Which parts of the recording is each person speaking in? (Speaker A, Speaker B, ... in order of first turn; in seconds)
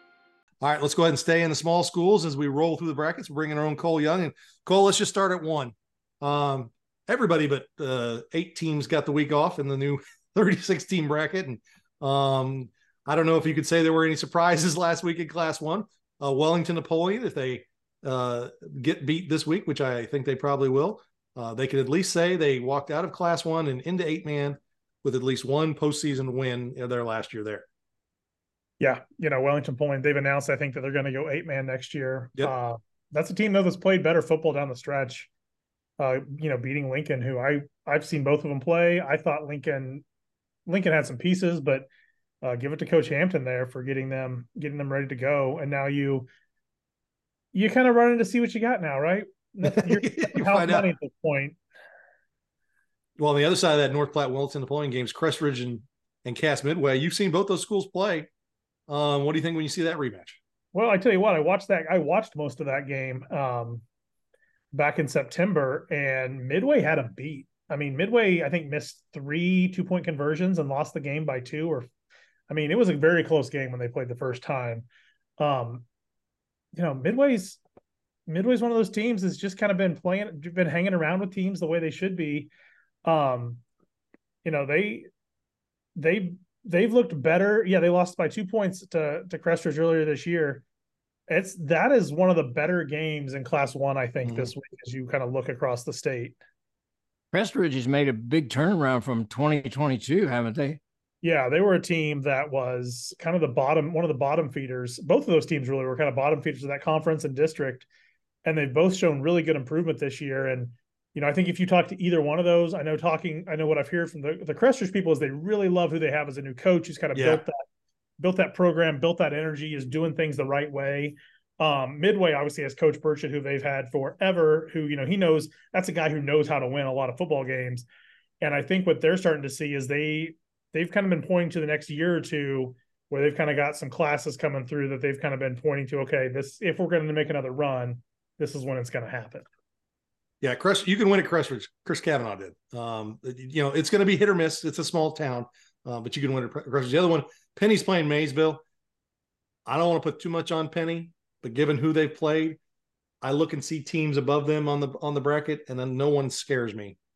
Speaker A: 0.6-27.6, 49.6-50.9, 53.2-58.3, 58.9-60.4, 94.2-94.5, 117.1-117.4, 140.4-148.6, 149.7-152.6, 153.2-157.0
Speaker B: 28.8-35.3, 36.0-40.0, 40.6-41.9, 42.4-46.3, 47.5-51.6, 60.7-63.8, 64.7-71.9, 72.5-74.9, 75.4-75.8, 76.7-77.6, 78.3-82.5, 83.0-83.6, 84.4-85.1, 86.0-90.6, 91.3-96.4, 101.2-107.9, 108.4-117.5, 118.2-127.9, 128.4-139.4
Speaker C: 97.3-100.8